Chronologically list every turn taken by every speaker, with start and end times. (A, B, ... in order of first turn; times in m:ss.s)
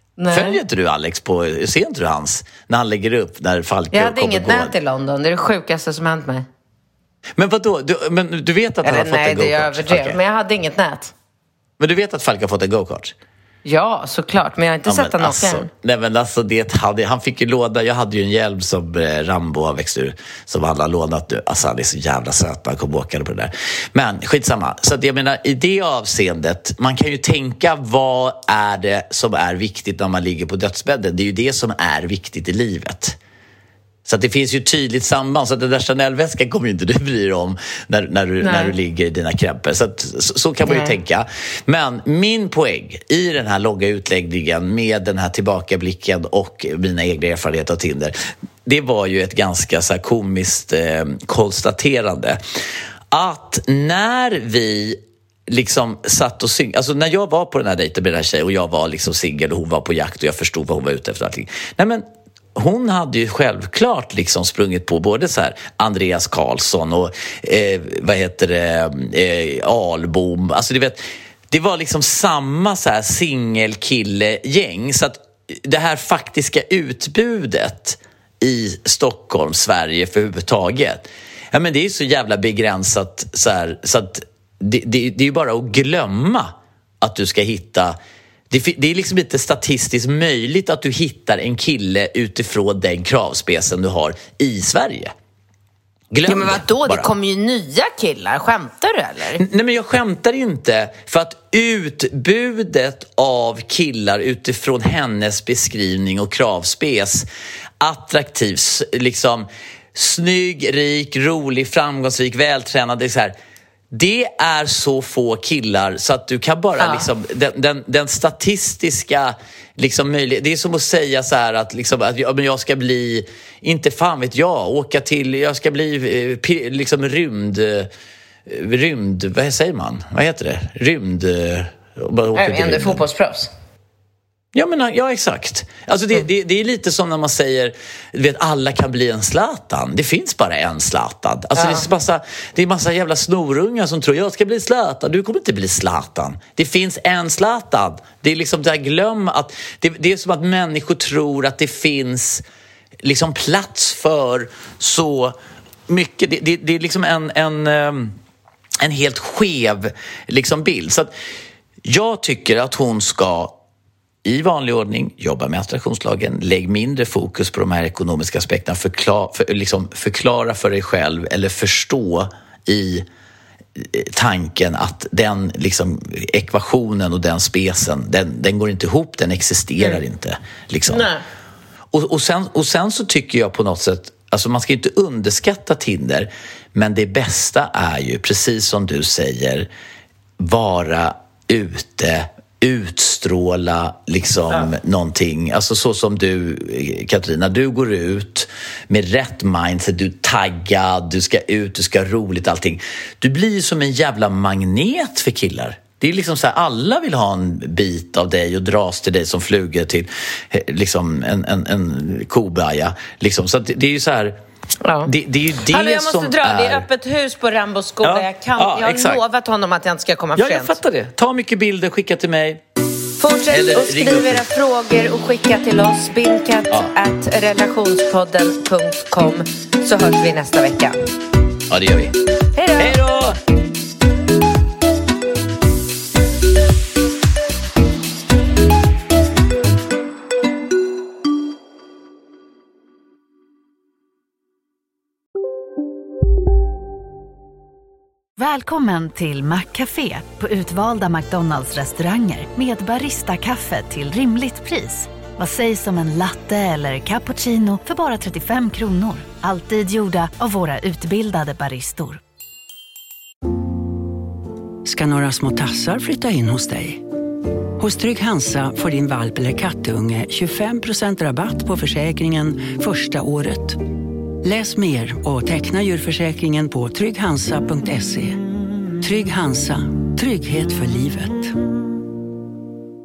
0:00.2-0:00.6 A
0:00.3-0:04.7 B
0:03.9-0:06.5 A
0:07.4-0:10.2 B
0:08.8-0:11.1 A
0:11.8-0:13.1 B
0:13.6-0:15.7 A
0:14.8-0:33.2 B
0:34.0-0:48.1 B
0:38.4-0:38.7 A
0:40.7-0:41.0 A
0:48.6-0:52.4 B
0:53.1-1:28.0 B
1:28.5-1:35.1 B
1:36.1-1:37.1 B
1:36.3-1:39.4 A
1:39.4-1:47.2 B
1:47.8-1:53.3 B
1:53.9-2:07.9 B
1:56.8-1:57.1 A
2:08.5-2:13.0 B
2:12.3-2:13.5 A
2:14.5-2:32.4 B
2:21.5-2:21.9 A
2:33.0-2:35.4 B
2:35.9-2:38.2 B
2:38.8-2:41.1 B
2:41.8-2:43.6 B
2:44.2-2:53.0 B
2:53.8-3:01.1 B
3:00.9-3:01.2 A
3:01.9-3:09.7 B
3:10.4-3:34.4 B
3:34.8-3:35.1 A
3:35.0-3:36.9 B
3:35.7-3:40.8 A
3:38.0-3:39.2 B
3:40.4-3:42.6 B
3:43.2-3:51.0 A
3:43.5-3:44.4 B
3:51.7-3:52.1 B
3:52.5-3:53.0 A
3:52.8-3:53.4 B
4:08.4-4:22.2 C
4:24.8-4:27.0 D
4:27.8-4:33.9 D
4:34.4-4:38.4 D
4:39.0-4:41.5 D